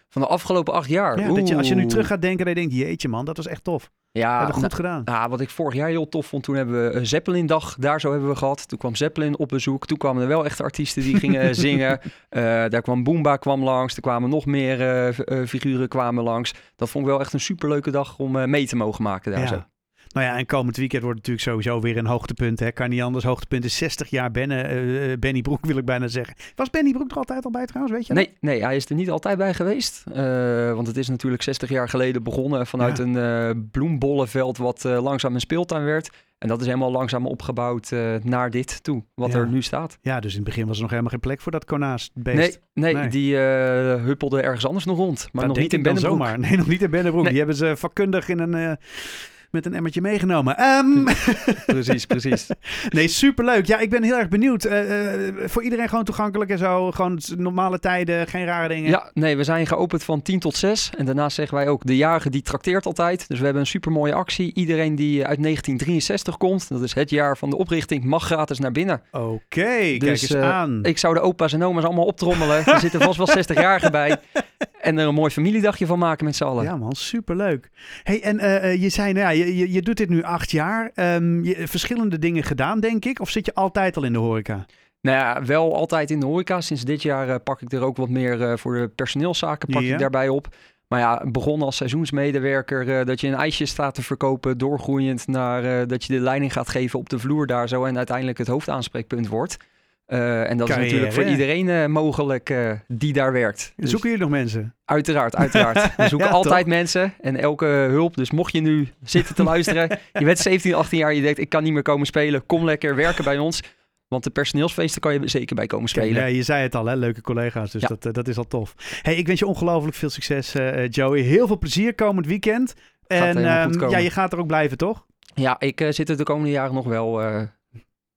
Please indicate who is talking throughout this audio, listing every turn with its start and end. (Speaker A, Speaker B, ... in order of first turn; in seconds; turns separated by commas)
Speaker A: 0.1-2.1, Speaker B: 1.2-5.1, Speaker A: 4.1-19.6, Speaker B: 19.4-19.6, Speaker B: 20.1-28.3, Speaker A: 28.1-40.0, Speaker B: 39.2-43.1, Speaker A: 42.3-46.4, Speaker B: 45.4-52.2, Speaker A: 51.6-52.5, Speaker B: 52.7-59.0, Speaker A: 58.9-69.0, Speaker B: 69.1-70.9, Speaker A: 70.0-74.2, Speaker A: 74.8-76.7, Speaker B: 76.6-84.7, Speaker A: 85.0-99.6, Speaker B: 89.7-90.1, Speaker A: 100.1-104.0, Speaker B: 100.7-101.4, Speaker B: 103.8-104.7, Speaker A: 104.9-116.3, Speaker B: 105.5-106.6, Speaker B: 115.9-125.0, Speaker A: 123.2-124.1, Speaker A: 125.4-127.5